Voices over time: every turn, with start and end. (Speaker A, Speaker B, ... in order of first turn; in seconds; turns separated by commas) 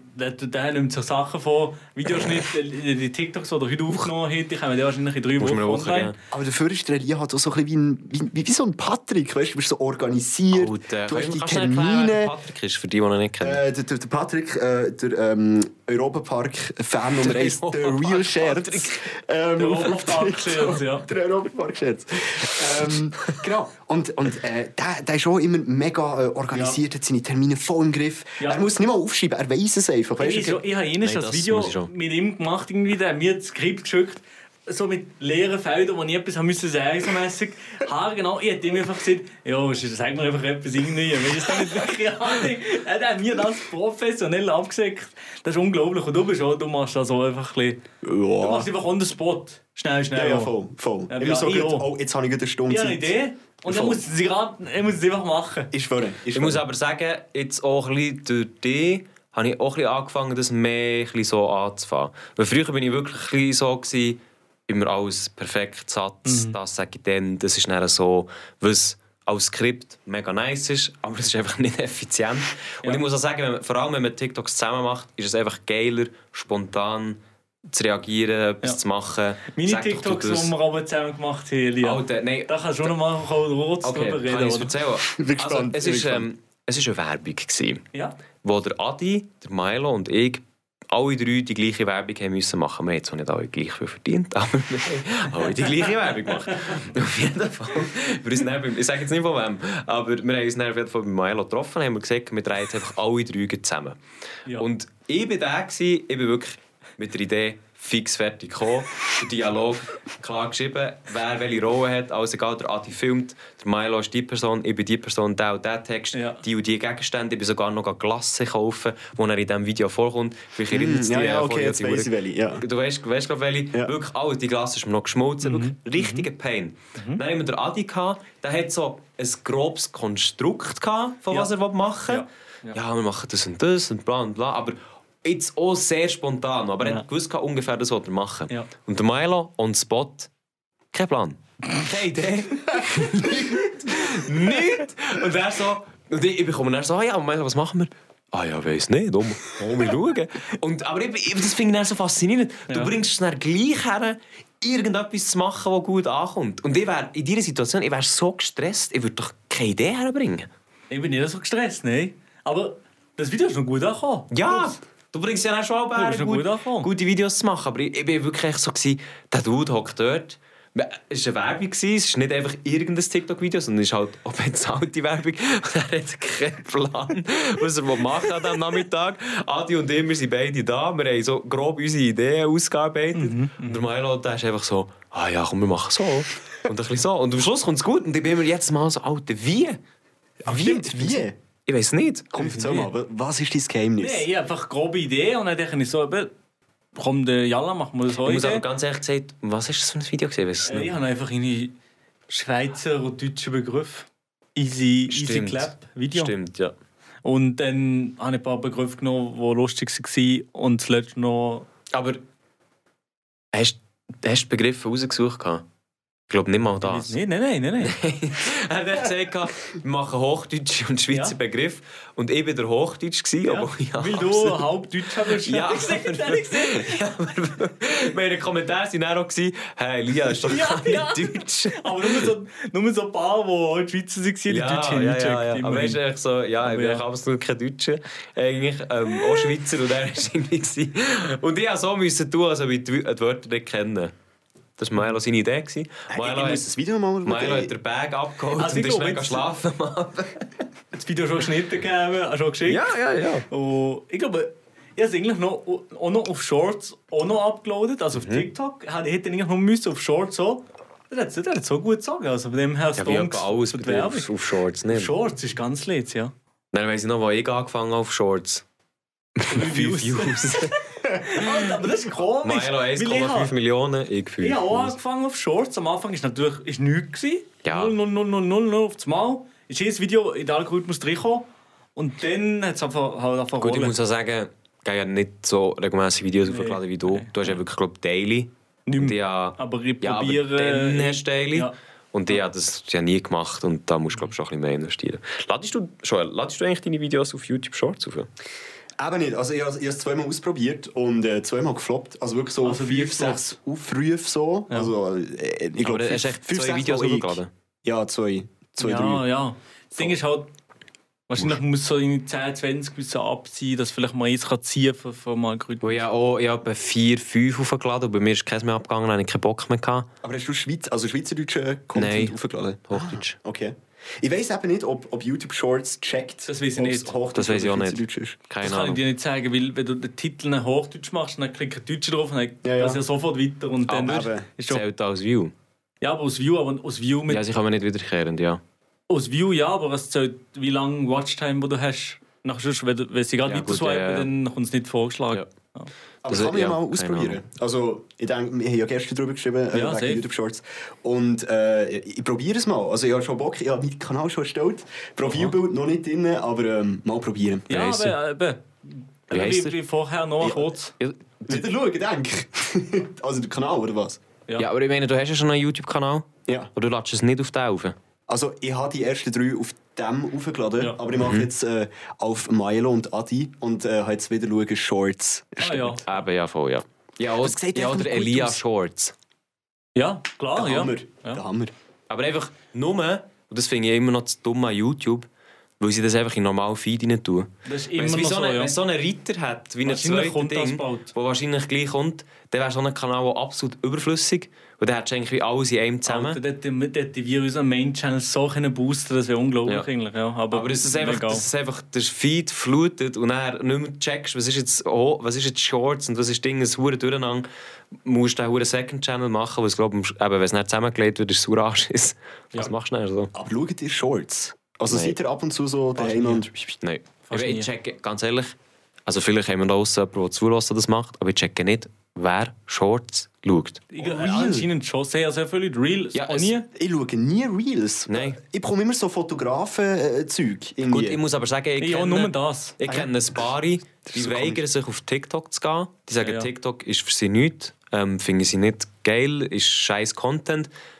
Speaker A: 0.1-6.1, Speaker B: 5.4-6.2, Speaker C: 6.3-12.3, Speaker B: 10.5-13.6, Speaker C: 13.4-30.6, Speaker B: 17.2-19.1, Speaker A: 19.6-21.1, Speaker A: 30.2-50.5, Speaker B: 31.0-31.9, Speaker C: 48.0-48.7, Speaker C: 50.1-53.1, Speaker A: 51.1-51.9, Speaker A: 52.7-55.7, Speaker C: 53.7-54.0, Speaker C: 55.7-56.6, Speaker B: 56.3-80.5, Speaker A: 66.2-66.5, Speaker A: 79.5-84.7, Speaker B: 81.8-82.9, Speaker B: 83.8-87.8, Speaker C: 85.1-86.3, Speaker B: 88.4-104.0, Speaker B: 104.5-140.3, Speaker A: 116.1-116.4, Speaker C: 120.7-122.6, Speaker A: 125.4-126.3, Speaker A: 127.0-127.2, Speaker A: 132.1-132.8, Speaker B: 140.9-160.5, Speaker A: 152.7-152.9, Speaker A: 160.9-164.8, Speaker B: 164.3-189.8, Speaker A: 165.9-166.9, Speaker A: 183.1-183.8, Speaker C: 190.4-191.3, Speaker B: 190.5-192.3, Speaker C: 192.3-194.3, Speaker A: 192.3-192.9, Speaker A: 194.0-196.3, Speaker A: 196.9-198.6, Speaker B: 198.2-200.9, Speaker A: 200.7-201.7, Speaker A: 202.3-206.3, Speaker B: 205.1-206.7, Speaker A: 207.2-211.7, Speaker B: 211.9-212.2, Speaker B: 213.5-215.6, Speaker B: 216.3-217.2, Speaker A: 216.8-218.0, Speaker B: 217.8-224.6, Speaker A: 221.1-221.3, Speaker A: 223.4-227.1, Speaker B: 225.2-232.3, Speaker A: 230.4-236.0, Speaker B: 234.5-244.1, Speaker A: 236.6-237.0, Speaker A: 239.2-239.5, Speaker B: 244.8-250.4, Speaker C: 246.1-247.7, Speaker A: 248.5-249.5, Speaker A: 250.9-252.9, Speaker B: 252.7-253.4, Speaker A: 253.5-264.3, Speaker B: 258.1-258.5, Speaker B: 263.0-265.1, Speaker A: 264.9-266.3, Speaker B: 266.7-268.6, Speaker B: 269.4-270.8, Speaker A: 269.5-273.5, Speaker B: 271.4-271.6, Speaker B: 272.4-275.0, Speaker A: 274.4-283.9, Speaker B: 277.6-277.9, Speaker B: 283.6-298.3, Speaker A: 286.4-287.6, Speaker A: 288.9-291.7, Speaker C: 299.0-309.2, Speaker A: 302.6-303.4, Speaker B: 305.8-307.5, Speaker A: 308.8-310.5, Speaker A: 311.3-316.0, Speaker B: 315.8-320.1, Speaker C: 320.2-328.4, Speaker B: 321.9-322.4, Speaker B: 322.9-323.4, Speaker A: 326.4-327.1, Speaker B: 327.3-329.0, Speaker A: 328.6-334.8, Speaker C: 332.6-333.0, Speaker B: 333.9-335.5, Speaker C: 334.0-334.5, Speaker A: 336.0-337.4, Speaker B: 337.3-338.6, Speaker A: 339.1-345.9, Speaker B: 343.4-344.3, Speaker C: 346.2-357.7, Speaker B: 346.3-347.4, Speaker A: 349.7-350.2, Speaker A: 355.2-355.6, Speaker A: 357.7-360.9, Speaker B: 357.7-358.1, Speaker B: 359.3-359.8, Speaker C: 360.4-360.7, Speaker B: 361.0-361.6, Speaker C: 361.4-364.2, Speaker B: 364.6-367.9, Speaker C: 368.3-376.0, Speaker B: 371.2-371.5, Speaker A: 375.6-376.0, Speaker B: 376.0-379.1, Speaker C: 377.4-378.6, Speaker A: 379.9-381.4, Speaker C: 380.5-381.7, Speaker B: 382.1-385.3, Speaker B: 385.8-396.4, Speaker A: 387.6-388.7, Speaker A: 389.8-391.1, Speaker A: 396.1-401.5, Speaker B: 400.5-407.5, Speaker B: 408.0-413.3, Speaker C: 413.3-416.8, Speaker B: 414.9-415.1, Speaker A: 416.0-416.5, Speaker B: 416.8-423.8, Speaker A: 417.3-417.7, Speaker A: 423.9-426.7, Speaker C: 424.0-424.7, Speaker B: 426.1-426.5, Speaker C: 426.7-431.2, Speaker B: 428.1-428.4, Speaker B: 430.9-440.7, Speaker A: 431.8-432.8, Speaker C: 432.8-433.1, Speaker C: 434.1-434.6, Speaker A: 436.2-436.5